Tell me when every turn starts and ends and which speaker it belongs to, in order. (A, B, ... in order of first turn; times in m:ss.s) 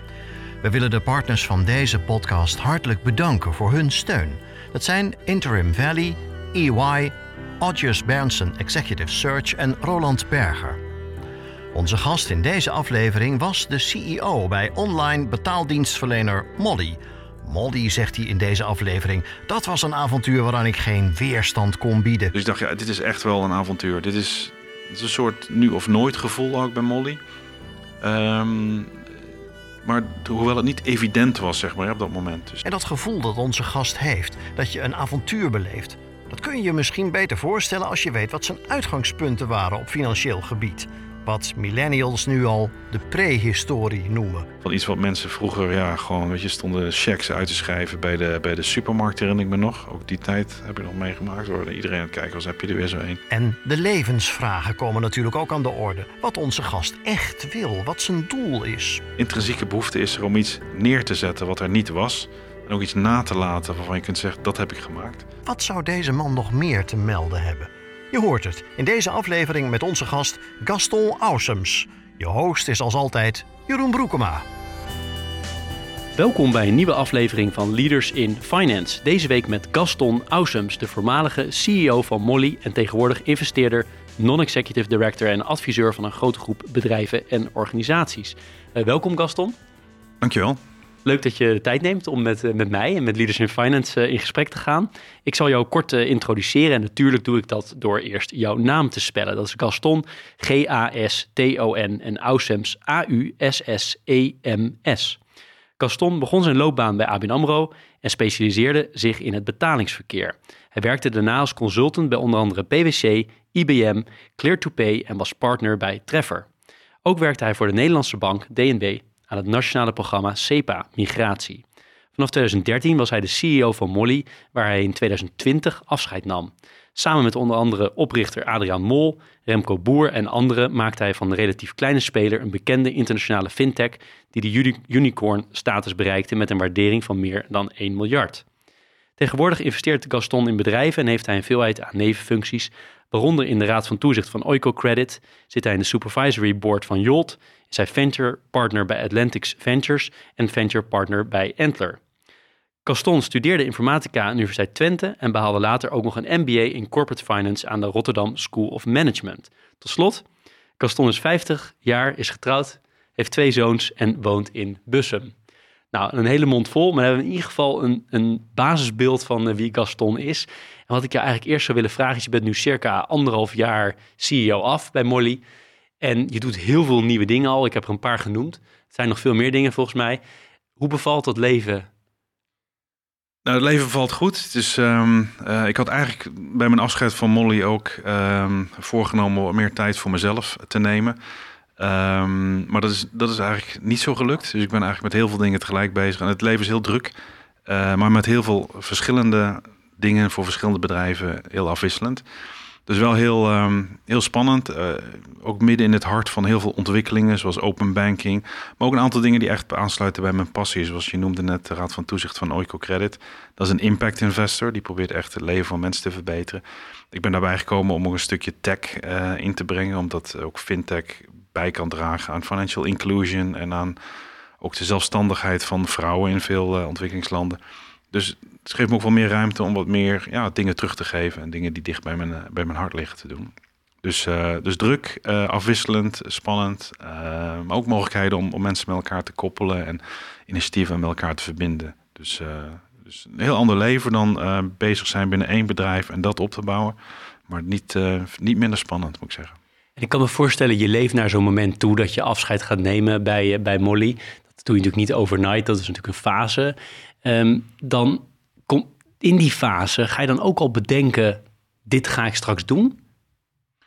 0:00.6-0:10.8 A
0:11.7-0:22.3 A
0:22.3-0:27.2 B
0:28.0-0:29.0 B
0:29.8-0:32.6 B
0:32.6-0:44.5 A
0:44.6-0:53.2 B
0:53.3-0:59.0 A
0:59.2-1:05.3 B
1:05.4-1:14.4 A
1:16.1-1:29.5 C
1:30.2-1:30.6 B
1:31.0-1:45.2 C
1:45.8-1:56.5 C
1:57.0-2:01.6 C
2:02.2-2:18.4 C
2:19.2-2:32.0 C
2:32.8-2:40.2 C
2:40.8-2:45.3 C
2:45.9-2:55.4 C
2:56.0-3:00.2 C
3:00.8-3:01.9 C
3:03.4-3:11.2 B
3:11.8-3:17.1 B
3:17.6-3:22.2 B
3:22.9-3:44.0 B
3:44.6-3:47.6 B
3:48.1-3:53.5 B
3:54.0-4:07.0 B
4:07.5-4:09.6 B
4:10.0-4:23.0 C